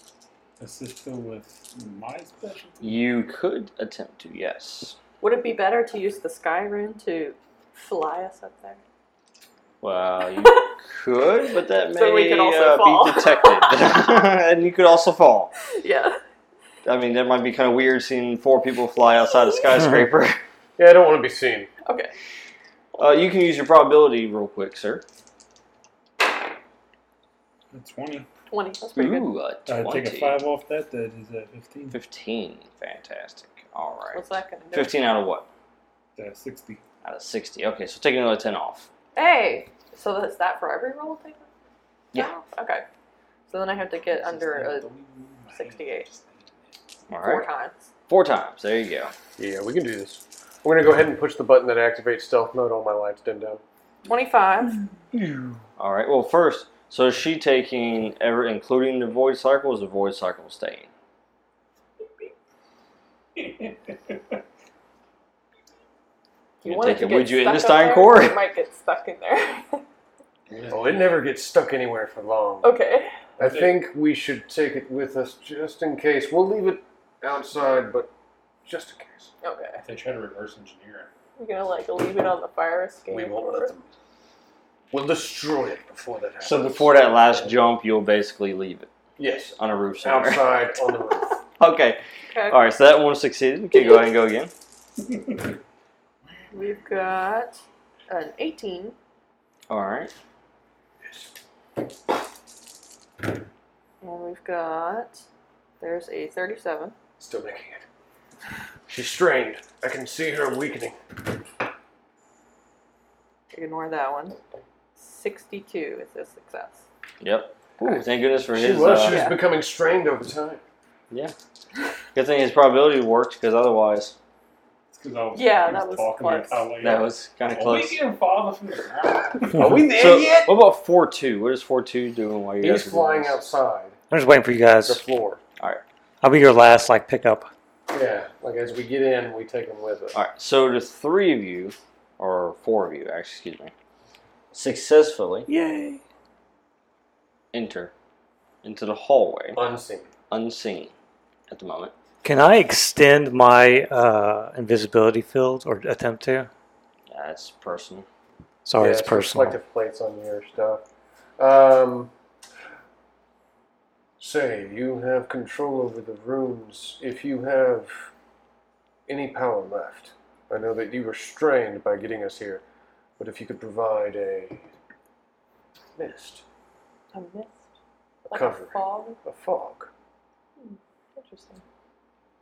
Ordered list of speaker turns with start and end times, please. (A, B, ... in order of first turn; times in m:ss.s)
0:00.6-0:03.0 A
0:02.8-0:05.0 B
0:05.2-0:08.8 C
0:09.8-0:15.5 B
0:10.4-0:10.7 C
0:11.9-0:14.0 C
0:15.7-0:16.2 C
0:16.8-0:20.4 B
0:20.8-0:21.7 D
0:21.8-0:22.1 C
0:22.9-0:25.0 B
0:27.7-0:28.3 A
0:28.5-0:29.3 C
0:28.9-0:30.4 B
0:29.7-0:32.0 A
0:31.9-0:35.5 B
0:34.1-0:35.0 C
0:36.2-0:36.8 A
0:37.0-0:38.9 B
0:39.1-0:41.5 C
0:42.1-0:42.8 C
0:43.5-0:44.9 C
0:43.8-0:46.7 A
0:45.5-0:46.1 C
0:47.1-0:47.4 B
0:47.2-0:47.9 C
0:48.1-0:49.1 B
0:49.4-0:53.6 D
0:54.0-0:54.8 C
0:55.8-1:00.9 B
1:03.4-1:04.2 A
1:06.6-1:09.8 C
1:06.6-1:08.4 B
1:10.5-1:11.2 A
1:10.7-1:12.7 D
1:12.6-1:13.2 C
1:13.4-1:18.1 D
1:13.4-1:13.8 A
1:18.6-1:19.3 D
1:19.4-1:19.8 C
1:19.8-1:21.1 A
1:21.4-1:23.7 C
1:23.1-1:23.9 D
1:24.9-1:27.5 D
1:26.4-1:28.9 B
1:29.2-1:31.4 D
1:29.6-1:30.6 B
1:31.6-1:34.5 B
1:32.3-1:32.6 C
1:33.7-1:34.0 C
1:36.5-1:39.0 C
1:39.7-1:40.1 B
1:41.0-1:41.3 D
1:44.0-1:45.2 C
1:45.8-1:46.9 C
1:47.2-1:47.8 D
1:48.9-1:51.0 D
1:53.5-1:54.4 C
1:55.0-1:56.8 C
1:57.2-1:59.3 B
1:58.5-2:00.6 D
1:59.0-1:59.4 C
2:02.1-2:04.2 B
2:04.9-2:09.6 A
2:05.3-2:06.8 C
2:06.8-2:08.0 B
2:09.5-2:10.6 D
2:09.9-2:13.4 B
2:12.6-2:14.0 D
2:14.1-2:15.0 E
2:14.8-2:15.4 D
2:16.2-2:17.5 E
2:17.9-2:20.2 D
2:20.1-2:23.7 B
2:24.5-2:25.5 B
2:25.5-2:26.0 E
2:27.5-2:27.9 B
2:28.6-2:29.6 B
2:29.5-2:30.1 D
2:30.3-2:30.9 B
2:31.5-2:31.9 B
2:32.2-2:36.5 E
2:37.1-2:38.0 B
2:38.6-2:39.6 E
2:38.8-2:40.8 D
2:41.4-2:42.1 D
2:44.2-2:48.1 D
2:49.1-2:52.6 D
2:53.2-2:54.7 D
2:56.0-2:56.4 D
2:57.1-2:57.6 C
2:58.3-2:59.2 C
2:58.3-2:59.9 D
3:00.6-3:01.6 C